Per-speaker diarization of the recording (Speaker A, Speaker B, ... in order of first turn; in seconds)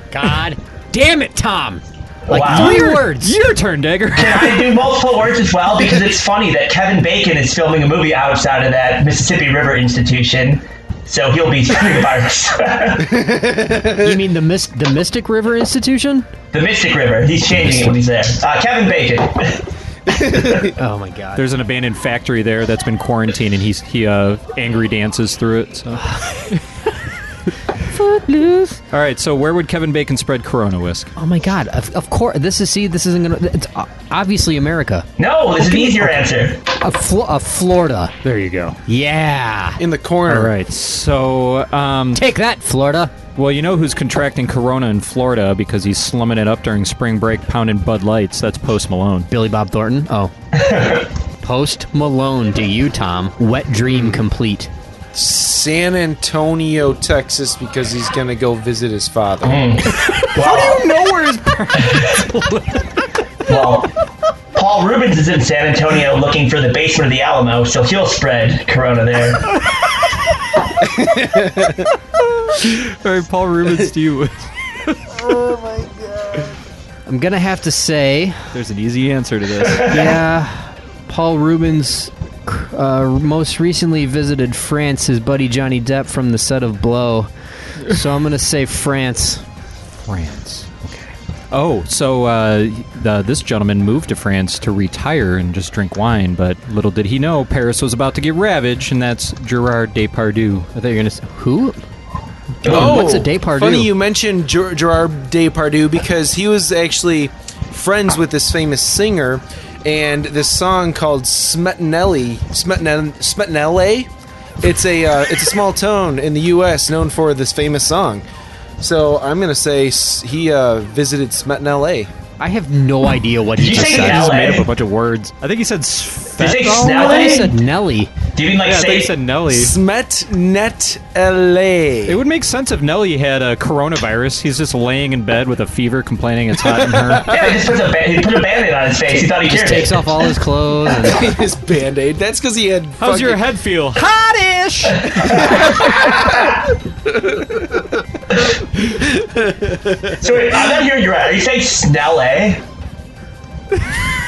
Speaker A: 0.1-3.3, 14.0-16.3, 20.8-21.4, 27.9-28.8, 31.2-35.1, 35.6-36.2, 36.8-38.2, 38.9-39.8, 42.1-43.1, 49.3-50.3, 51.4-54.7, 77.1-78.5, 79.9-87.3, 87.8-89.4, 100.8-101.8, 102.6-103.9, 122.4-124.6, 126.6-128.1, 139.1-141.3
Speaker B: 2.3-2.9, 4.1-13.2, 16.5-19.6, 35.2-36.6, 50.5-51.1, 59.4-60.8, 61.8-62.1, 63.5-63.9, 64.5-69.5, 79.7-80.2, 102.6-103.2, 123.6-124.7, 126.4-127.6, 128.3-129.1, 137.3-140.0, 150.2-152.6
Speaker C: 2.4-4.8, 21.4-26.6, 28.9-31.1, 38.2-38.8, 40.3-42.2, 43.4-49.3, 60.0-62.9, 72.4-75.0, 78.5-80.0, 90.1-91.0, 91.5-100.7, 123.7-127.5, 128.6-129.8, 132.1-137.4, 143.0-145.6
Speaker D: 13.1-14.1, 20.1-20.7, 39.8-40.5, 53.9-54.2, 55.1-59.6, 70.8-71.8, 102.7-114.1, 114.6-118.2, 118.8-122.1, 129.5-132.2, 136.7-137.6, 141.0-143.4, 145.3-146.6, 148.9-150.2